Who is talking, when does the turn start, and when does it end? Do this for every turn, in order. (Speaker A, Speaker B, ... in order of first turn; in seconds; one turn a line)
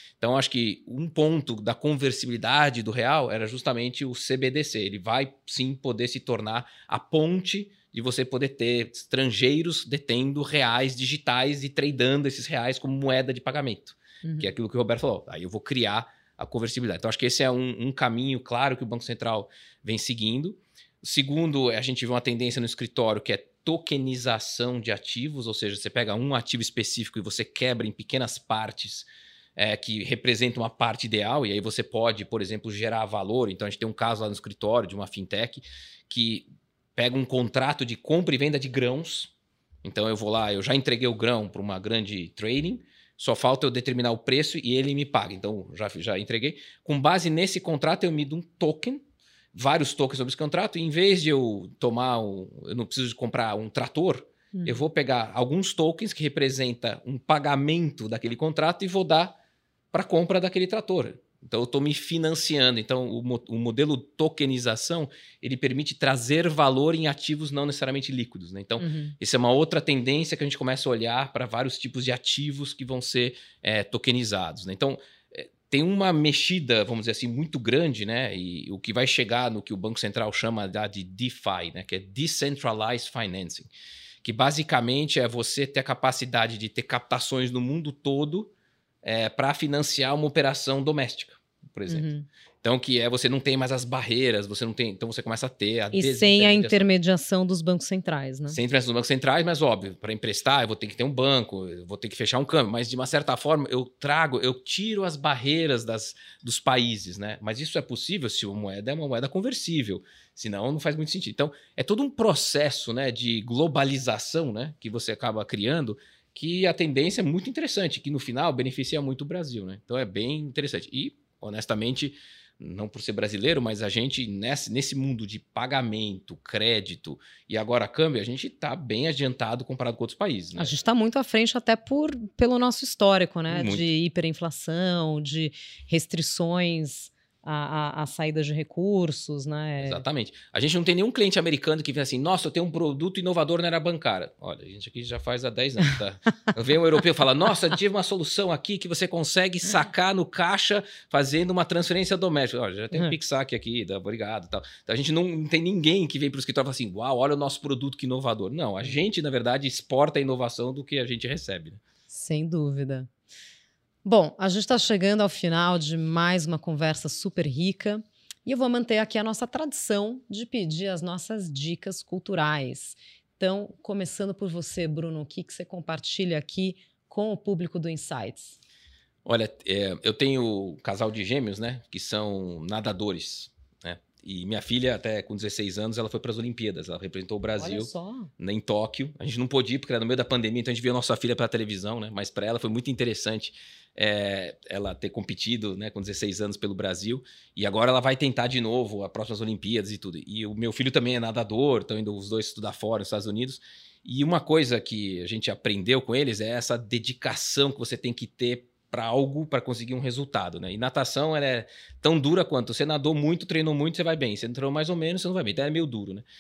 Speaker A: 0.2-39.3
Speaker B: 14.2-14.5
Speaker A: 39.8-49.0
Speaker A: 49.5-59.4
Speaker B: 54.5-54.8
Speaker A: 59.9-83.7
Speaker B: 68.8-69.1
Speaker A: 84.2-88.5
Speaker A: 89.0-92.1
Speaker B: 91.9-92.3
Speaker A: 92.6-96.9
Speaker B: 95.9-98.6
Speaker A: 98.5-130.8
Speaker B: 130.6-140.0
Speaker A: 133.5-133.9
Speaker A: 139.8-161.8
Speaker B: 162.1-163.1
Speaker B: 164.1-178.6
Speaker A: 179.2-216.2
Speaker B: 187.6-188.3